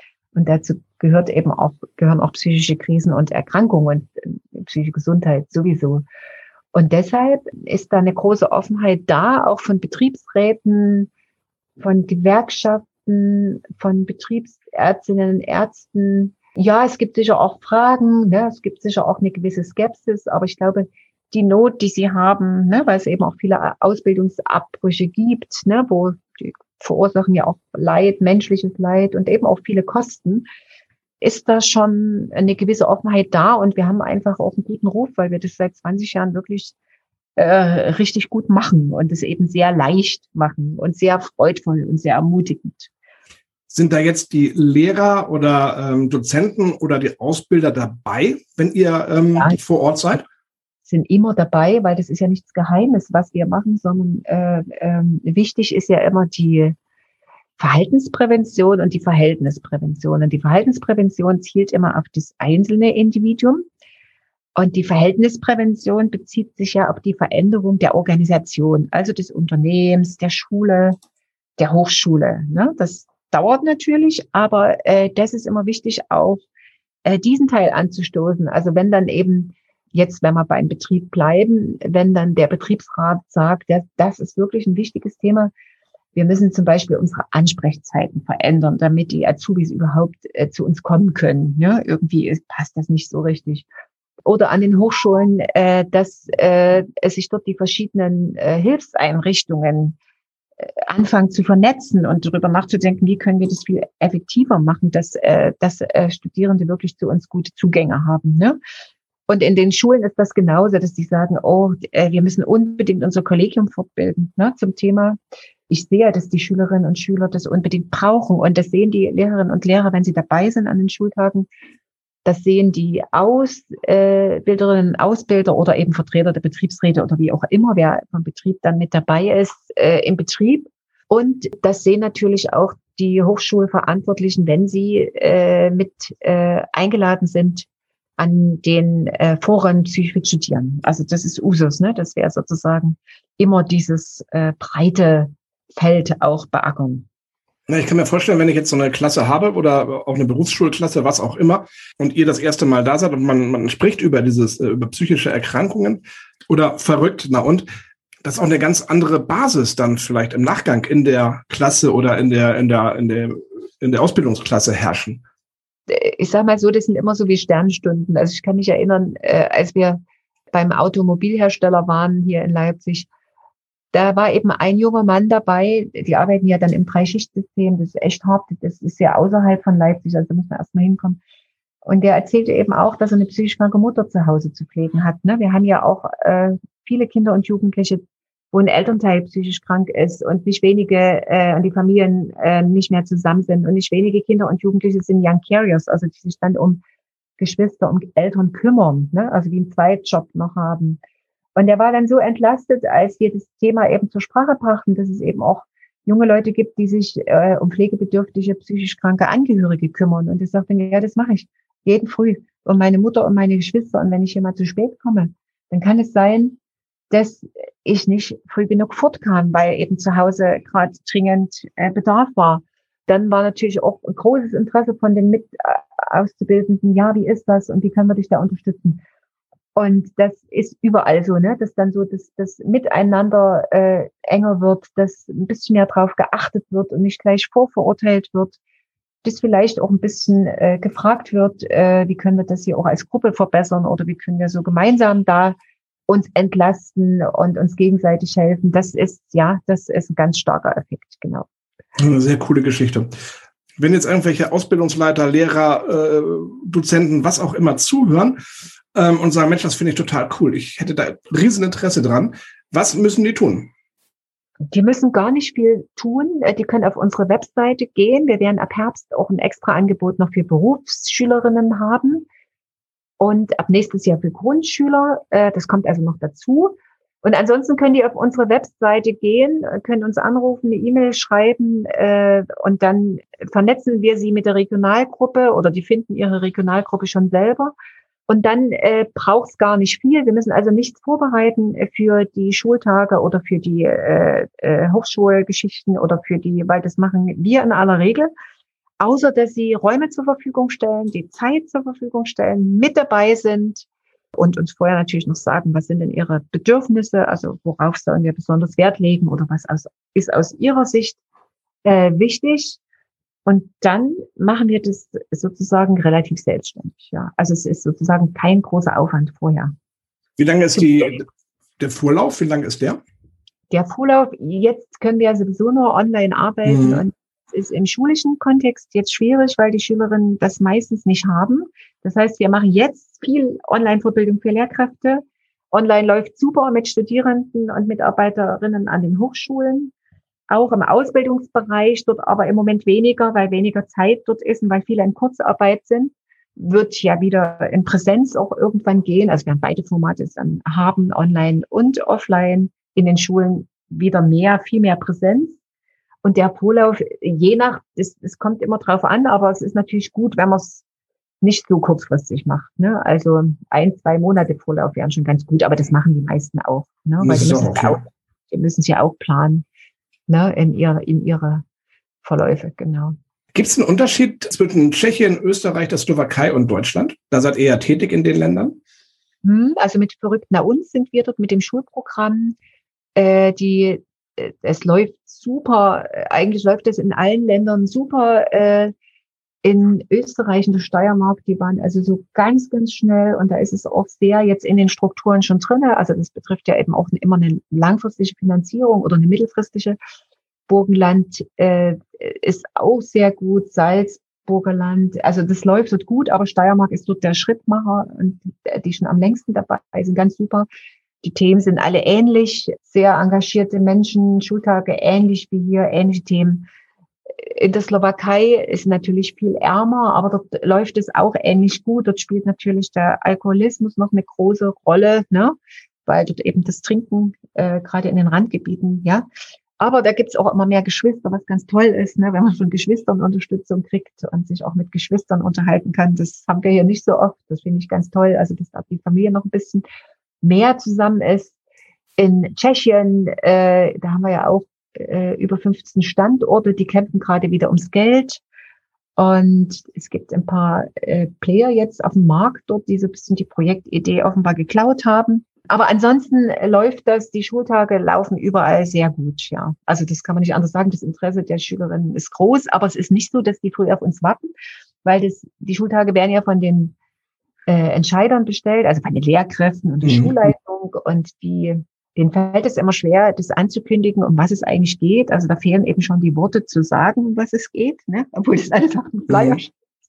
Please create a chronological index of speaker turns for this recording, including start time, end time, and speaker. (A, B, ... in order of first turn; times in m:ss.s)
0:00.3-0:06.0 A
0:06.7-0:11.1 A
0:11.8-0:30.4 A
0:31.2-0:36.7 A
0:37.4-0:42.9 A
0:43.7-0:50.2 B
0:50.8-0:56.8 A
0:57.6-1:03.6 A
1:04.6-1:11.0 A
1:11.6-1:16.4 A
1:17.0-1:25.5 A
1:26.1-1:33.6 A
1:34.2-1:40.0 A
1:40.6-1:48.6 A
1:49.3-1:55.2 A
1:55.7-2:01.5 A
2:02.2-2:17.7 A
2:18.2-2:27.1 A
2:27.7-2:37.6 B
2:38.2-2:45.2 B
2:45.9-2:50.0 A
2:50.5-2:53.1 A
2:53.9-3:01.2 A
3:01.8-3:16.8 A
3:17.4-3:21.0 A
3:21.6-3:36.6 A
3:37.1-3:49.0 A
3:49.7-3:58.6 A
3:59.2-4:05.6 A
4:06.1-4:11.5 A
4:12.0-4:13.1 B
4:13.8-4:18.4 B
4:18.9-4:23.7 B
4:24.7-4:32.2 A
4:33.2-4:47.7 A
4:48.3-4:58.3 A
4:59.0-5:11.2 A
5:11.8-5:12.8 A
5:13.4-5:19.7 A
5:20.4-5:21.2 B
5:20.8-5:21.0 A
5:21.8-5:23.0 B
5:23.7-5:39.9 A
5:26.6-5:27.0 B
5:40.5-5:55.6 A
5:56.2-6:00.8 A
6:01.4-6:09.6 A
6:07.2-6:08.0 B
6:10.3-6:11.6 A
6:12.2-6:13.2 A
6:13.5-6:18.8 B
6:19.4-6:22.6 A
6:23.2-6:28.9 A
6:29.6-6:40.0 A
6:40.7-6:50.7 A
6:51.2-6:56.7 A
6:57.4-7:09.2 A
7:09.8-7:19.8 A
7:20.4-7:21.5 A
7:22.2-7:28.4 A
7:29.2-7:44.5 A
7:45.0-7:46.9 A
7:47.7-7:59.7 A
7:50.0-7:50.3 B
7:59.3-7:59.6 B